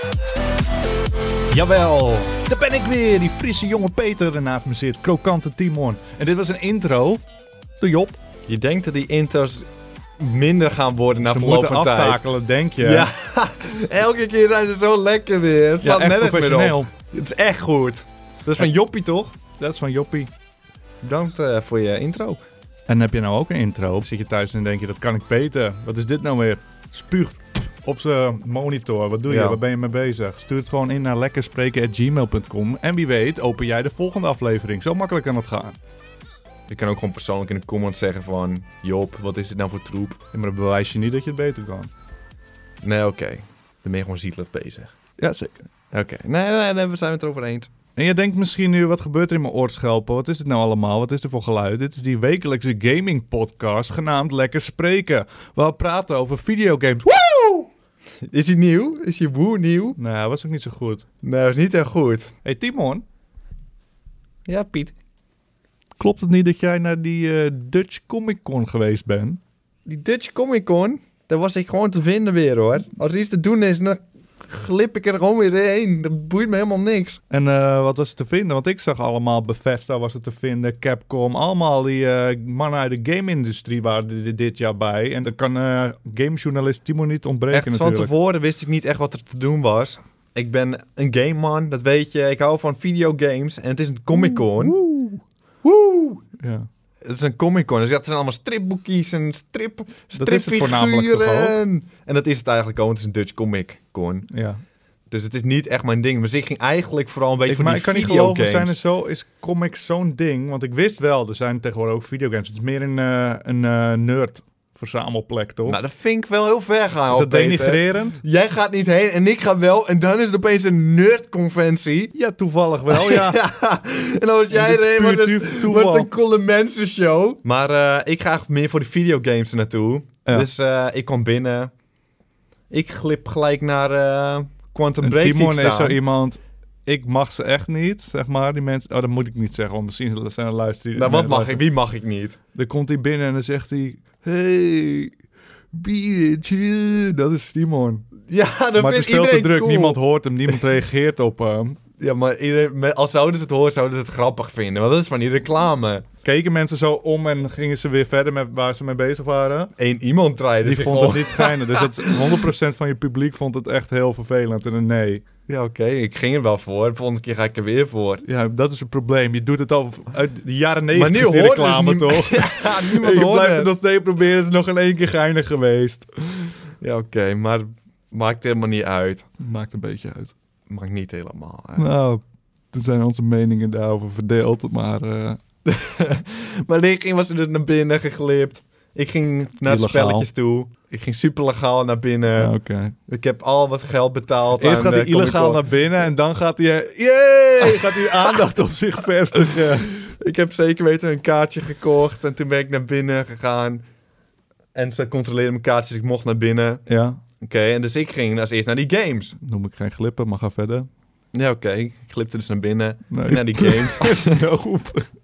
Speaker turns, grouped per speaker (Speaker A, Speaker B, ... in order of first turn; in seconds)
Speaker A: 1.5-7.2, 7.8-8.2, 11.2-13.1, 15.8-16.9, 19.6-20.3, 22.9-35.8, 40.3-41.9, 45.2-45.7, 48.0-57.7, 60.0-61.0, 62.4-63.0, 66.0-69.4, 77.3-88.1, 94.1-95.2, 96.4-96.7, 100.2-101.6, 104.3-104.6, 107.5-115.8, 117.1-118.2, 122.1-123.4, 124.5-126.1, 135.0-141.6, 142.5-145.1, 145.7-148.1, 148.8-151.8, 156.2-159.7, 160.6-165.2, 168.2-176.1, 179.4-180.3, 181.8-185.4, 189.6-190.3, 192.4-192.9, 194.6-200.0, 206.9-207.2, 209.4-210.9, 213.1-215.1
Speaker B: 8.5-12.2, 12.8-19.4, 21.0-22.4, 29.3-29.6, 36.7-40.2, 42.8-44.9, 45.9-47.7, 58.2-60.0, 61.2-62.3, 64.5-65.0, 69.8-77.2, 87.5-94.8, 95.6-96.2, 97.0-104.3, 105.1-108.8, 115.7-122.1, 122.9-131.7, 132.7-136.0, 140.9-142.4, 148.3-150.0, 152.0-156.1, 159.8-162.4, 165.5-168.2, 170.9-173.7, 176.8-179.3, 180.7-182.0, 185.6-192.5, 193.1-195.7, 197.6-198.5, 199.3-203.8, 204.7-206.8, 207.4-209.3, 211.3-214.4